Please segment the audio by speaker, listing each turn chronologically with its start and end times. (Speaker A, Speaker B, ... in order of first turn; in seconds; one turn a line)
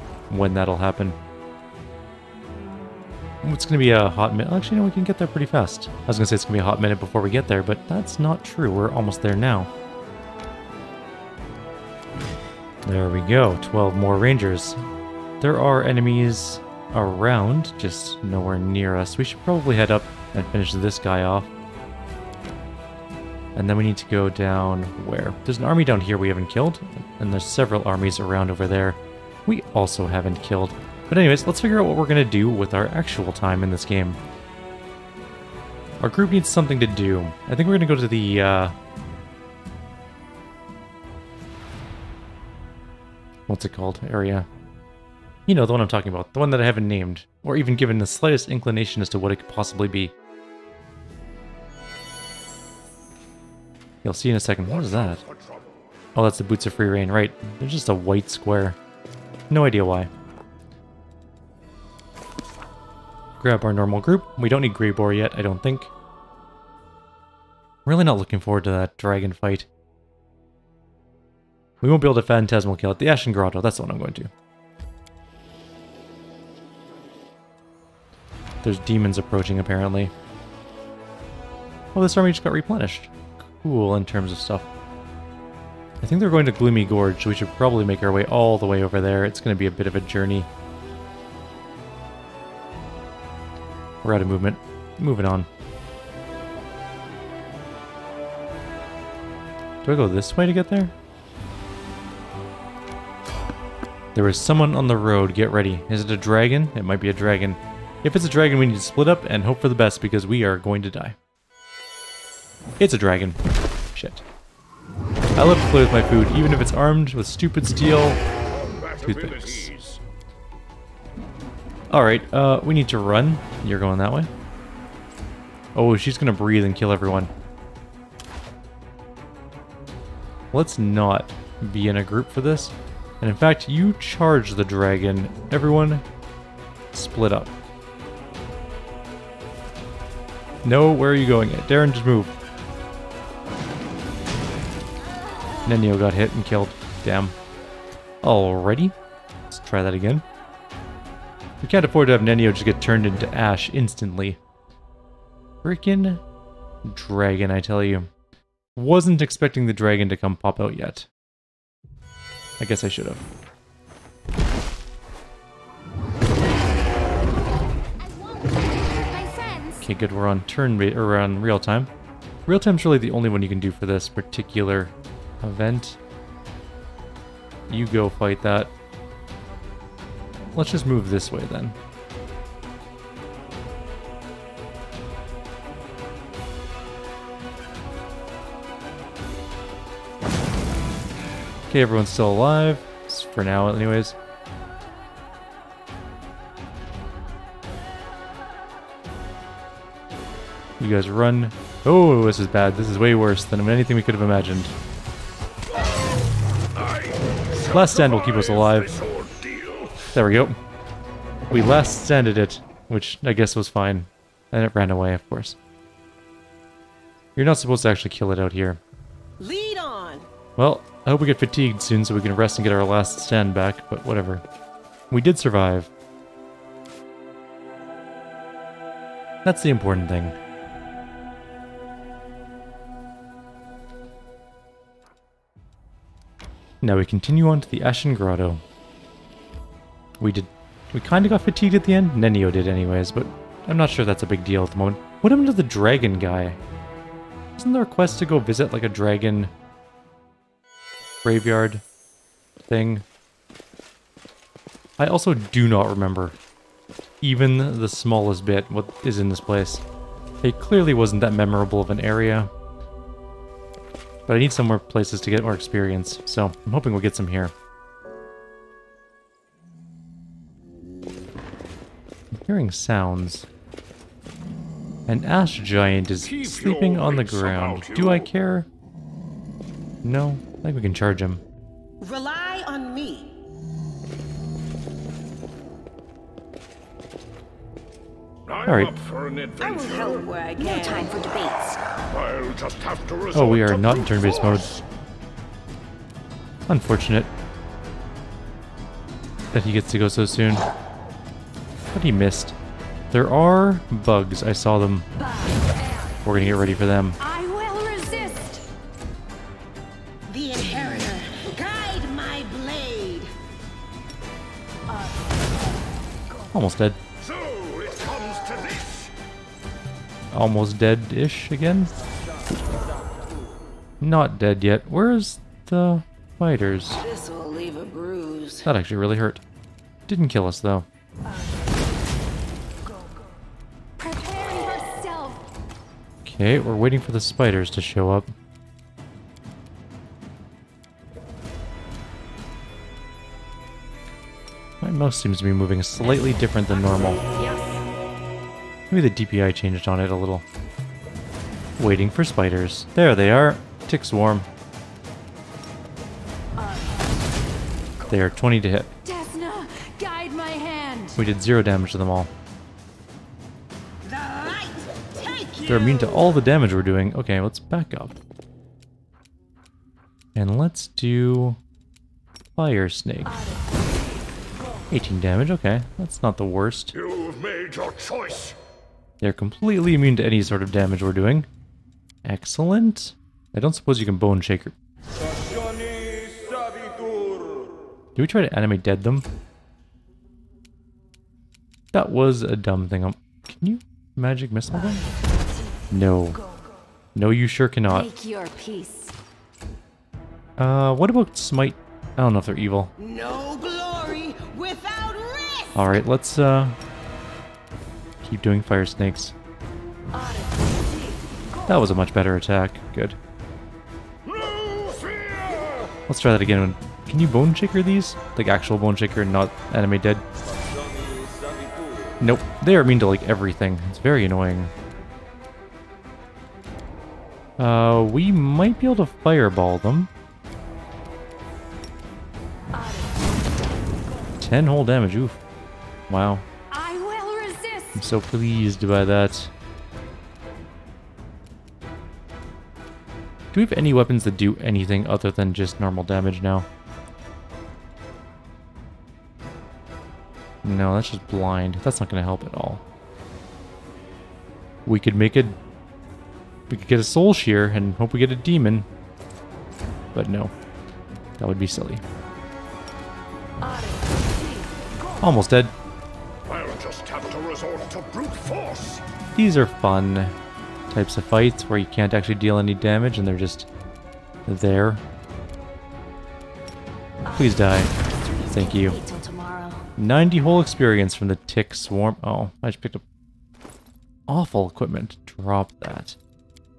Speaker A: 0.3-1.2
Speaker A: 3.4-9.7
Speaker A: 12.8-14.8
Speaker A: 15.4-21.5
Speaker A: 23.5-34.2
Speaker A: 36.0-38.7
Speaker A: 43.5-44.5
Speaker A: 45.5-50.1
Speaker A: 54.0-55.2
Speaker B: 54.6-55.9
Speaker A: 56.1-58.8
Speaker A: 59.5-60.1
Speaker A: 63.4-65.9
Speaker A: 67.8-69.7
Speaker A: 71.8-74.3
Speaker A: 78.6-80.1
Speaker A: 81.9-84.7
Speaker A: 86.0-90.5
Speaker A: 94.0-95.5
Speaker A: 99.8-100.9
Speaker A: 104.1-111.2
Speaker A: 112.8-113.4
Speaker A: 113.9-114.2
Speaker A: 115.3-118.2
Speaker B: 118.5-120.0
Speaker A: 119.0-119.7
Speaker A: 121.9-124.3
Speaker A: 125.7-127.3
Speaker A: 130.5-136.0
Speaker A: 136.9-137.5
Speaker A: 140.6-142.3
Speaker A: 145.7-147.3
Speaker A: 148.2-148.9
Speaker A: 149.5-150.2
Speaker A: 151.6-154.4
Speaker A: 155.6-156.2
Speaker A: 156.8-158.1
Speaker A: 158.7-161.1
Speaker A: 162.6-163.2
Speaker C: 168.0-169.9
Speaker A: 169.8-171.9
Speaker A: 172.5-176.0
Speaker A: 177.7-178.7
Speaker A: 180.5-181.8
Speaker A: 191.7-194.2
Speaker A: 200.8-204.8
Speaker B: 206.7-210.2
Speaker A: 207.7-208.9
Speaker A: 210.1-210.6
Speaker A: 211.5-215.6
Speaker A: 217.3-218.8
Speaker D: 219.4-220.3
Speaker A: 220.6-224.4
Speaker A: 225.1-225.9
Speaker A: 229.4-230.4
Speaker A: 236.8-238.6
Speaker A: 240.2-246.6
Speaker A: 247.6-249.5
Speaker A: 251.2-251.8
Speaker A: 252.7-253.0
Speaker A: 255.0-256.4
Speaker A: 257.2-259.8
Speaker A: 260.4-262.5
Speaker A: 264.3-267.5
Speaker A: 272.3-273.5
Speaker A: 275.1-278.7
Speaker B: 276.2-278.3
Speaker A: 280.0-281.4
Speaker D: 282.0-283.3
Speaker B: 288.4-290.3
Speaker A: 288.6-288.9
Speaker D: 289.6-291.2
Speaker C: 290.6-291.8
Speaker B: 292.1-294.8
Speaker A: 293.3-294.7
Speaker A: 296.7-297.3
Speaker A: 299.5-300.6
Speaker A: 301.9-302.6
Speaker A: 303.1-305.1
Speaker A: 306.2-307.2
Speaker C: 307.2-308.6
Speaker D: 310.3-313.3
Speaker A: 316.5-317.0
Speaker B: 317.2-319.1
Speaker A: 320.3-321.9
Speaker A: 324.0-327.0
Speaker D: 327.0-328.6
Speaker A: 328.6-329.4
Speaker A: 330.1-330.9
Speaker C: 334.0-335.5
Speaker A: 336.2-338.3
Speaker A: 344.8-347.2
Speaker C: 347.2-347.8
Speaker A: 348.9-350.4
Speaker A: 351.8-354.5
Speaker A: 358.1-358.9
Speaker C: 359.0-361.2
Speaker A: 361.1-362.3
Speaker D: 364.0-366.3
Speaker A: 365.7-368.1
Speaker A: 370.3-371.6
Speaker A: 372.5-373.3
Speaker A: 374.9-376.9
Speaker B: 376.9-378.6
Speaker A: 379.2-381.5
Speaker A: 382.2-384.7
Speaker A: 388.1-389.2
Speaker A: 391.9-395.1
Speaker A: 395.9-396.4
Speaker A: 397.1-398.1
Speaker C: 397.9-399.1
Speaker A: 400.6-402.9
Speaker D: 403.0-406.0
Speaker A: 405.7-406.8
Speaker A: 408.2-409.3
Speaker A: 411.7-413.2
Speaker B: 414.2-415.9
Speaker A: 416.1-420.2
Speaker A: 422.2-424.7
Speaker A: 427.6-430.1
Speaker A: 434.4-435.4
Speaker A: 436.1-436.4
Speaker C: 436.7-438.0
Speaker A: 437.9-439.5
Speaker A: 443.5-446.7
Speaker A: 450.6-452.8
Speaker A: 454.9-455.6
Speaker A: 456.7-458.9
Speaker A: 460.1-460.5
Speaker A: 461.4-462.0
Speaker A: 465.2-465.7
Speaker B: 466.4-469.0
Speaker A: 469.3-470.3
Speaker A: 470.9-473.7
Speaker A: 474.5-475.0
Speaker A: 477.3-477.9
Speaker C: 477.9-479.8
Speaker A: 478.5-479.0
Speaker A: 480.0-483.0
Speaker A: 484.3-486.2